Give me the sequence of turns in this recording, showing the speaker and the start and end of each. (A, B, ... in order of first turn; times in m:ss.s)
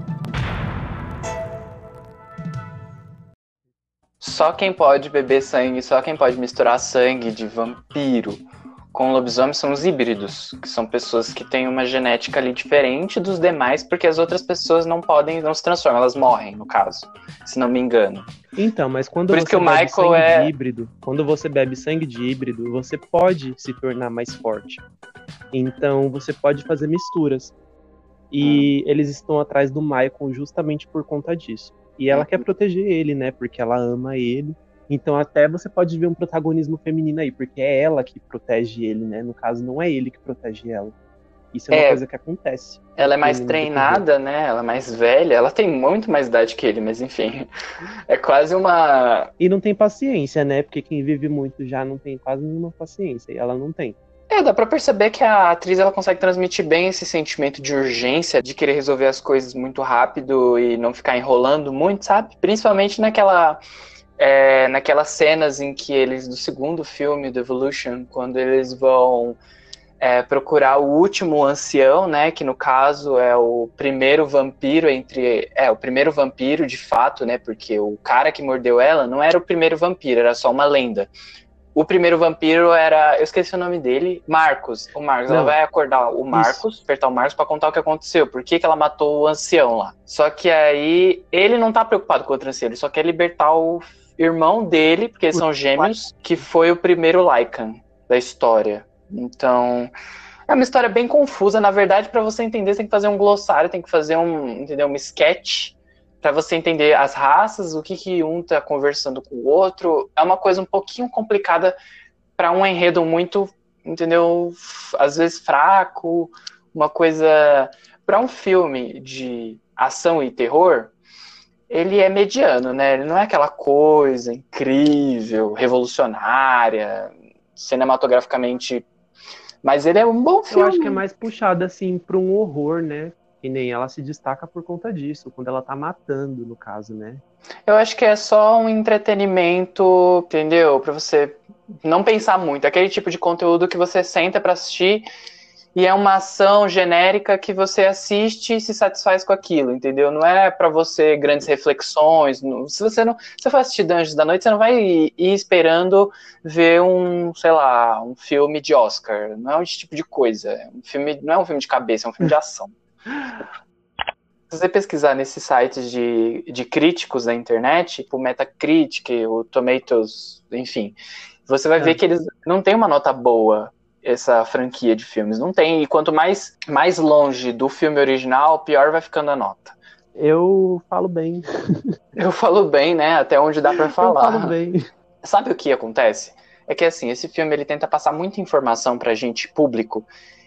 0:04.2-0:18.3 A
0:18.6-0:24.8 B
0:19.3-0:20.5 A
0:25.5-0:27.6 B
0:28.3-0:41.0 B
0:28.4-0:28.7 A
0:32.1-0:32.5 A
0:41.5-0:44.1 B
0:41.7-0:42.0 A
0:43.0-0:47.5 A
0:48.1-0:49.3 A
0:49.4-0:54.0 B
0:54.3-1:03.6 A
1:04.2-1:09.4 A
1:10.0-1:21.1 A
1:21.7-1:39.9 A
1:25.3-1:25.6 B
1:26.3-1:26.6 B
1:35.3-1:36.0 B
1:40.5-1:51.8 A
1:52.4-2:01.0 A
2:01.7-2:08.9 A
2:09.6-2:11.0 A
2:10.5-2:17.2 B
2:17.7-2:25.1 A
2:25.8-2:42.8 A
2:44.5-2:51.0 A
2:51.5-2:59.8 A
3:00.2-3:01.4 B
3:02.2-3:04.6 A
3:03.7-3:04.8 B
3:05.2-3:10.1 A